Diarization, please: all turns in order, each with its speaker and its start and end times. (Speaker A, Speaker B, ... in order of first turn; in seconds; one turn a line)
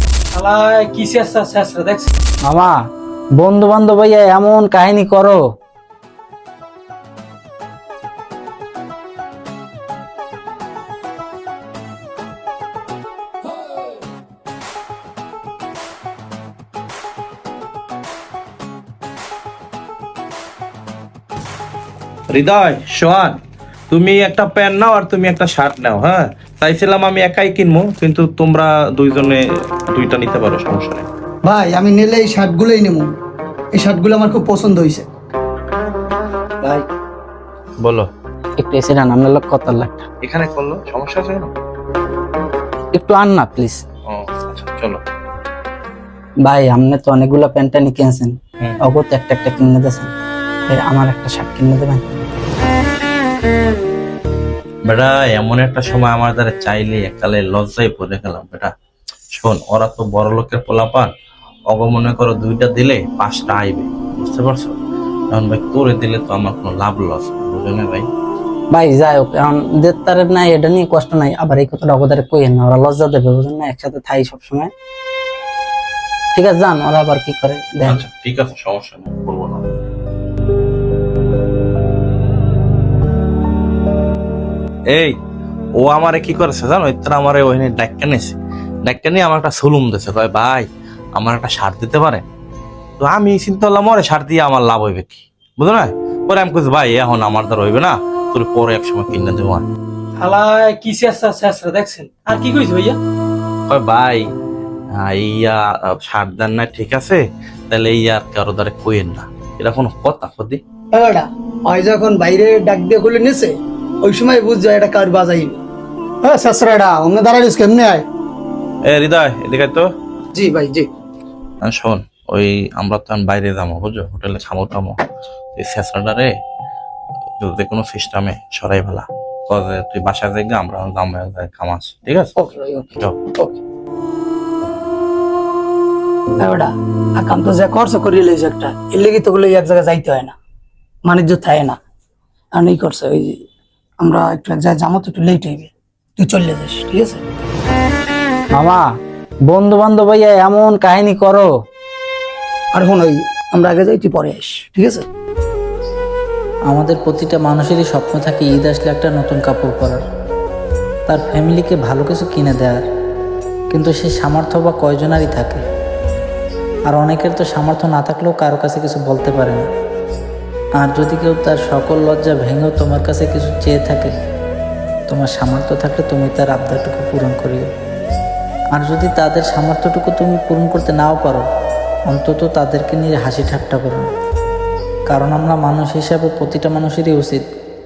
Speaker A: 0.3-2.1
Speaker B: 2.5-2.7
Speaker B: 3.4-5.4
Speaker C: 22.3-23.4
Speaker C: 23.9-31.1
Speaker D: 31.4-33.1
Speaker D: 33.7-35.0
Speaker C: 37.8-38.1
Speaker B: 38.6-40.1
Speaker C: 40.2-41.5
Speaker B: 42.9-43.8
Speaker C: 44.1-45.0
Speaker B: 46.4-50.1
Speaker B: 50.7-52.0
Speaker C: 54.9-58.7
Speaker C: 59.3-61.1
Speaker C: 61.7-64.8
Speaker C: 65.3-68.1
Speaker B: 68.7-74.7
Speaker B: 76.3-78.0
Speaker C: 77.8-79.7
Speaker C: 85.8-92.2
Speaker C: 93.0-99.6
Speaker A: 100.2-103.0
Speaker C: 103.7-104.2
Speaker C: 104.9-110.6
Speaker D: 110.9-115.6
Speaker D: 116.2-118.0
Speaker C: 118.8-119.9
Speaker D: 120.3-120.9
Speaker C: 121.6-125.0
Speaker C: 125.5-126.3
Speaker C: 127.4-132.3
Speaker D: 132.4-132.8
Speaker D: 136.4-140.3
Speaker D: 141.0-141.8
Speaker D: 142.5-143.4
Speaker D: 144.0-147.2
Speaker B: 149.5-151.5
Speaker D: 152.7-155.1
Speaker E: 156.7-160.0
Speaker E: 161.1-162.8
Speaker E: 163.7-165.6
Speaker E: 166.9-169.7
Speaker E: 170.8-174.1
Speaker E: 175.1-177.7
Speaker E: 178.7-181.4
Speaker E: 182.1-184.1
Speaker E: 185.1-187.4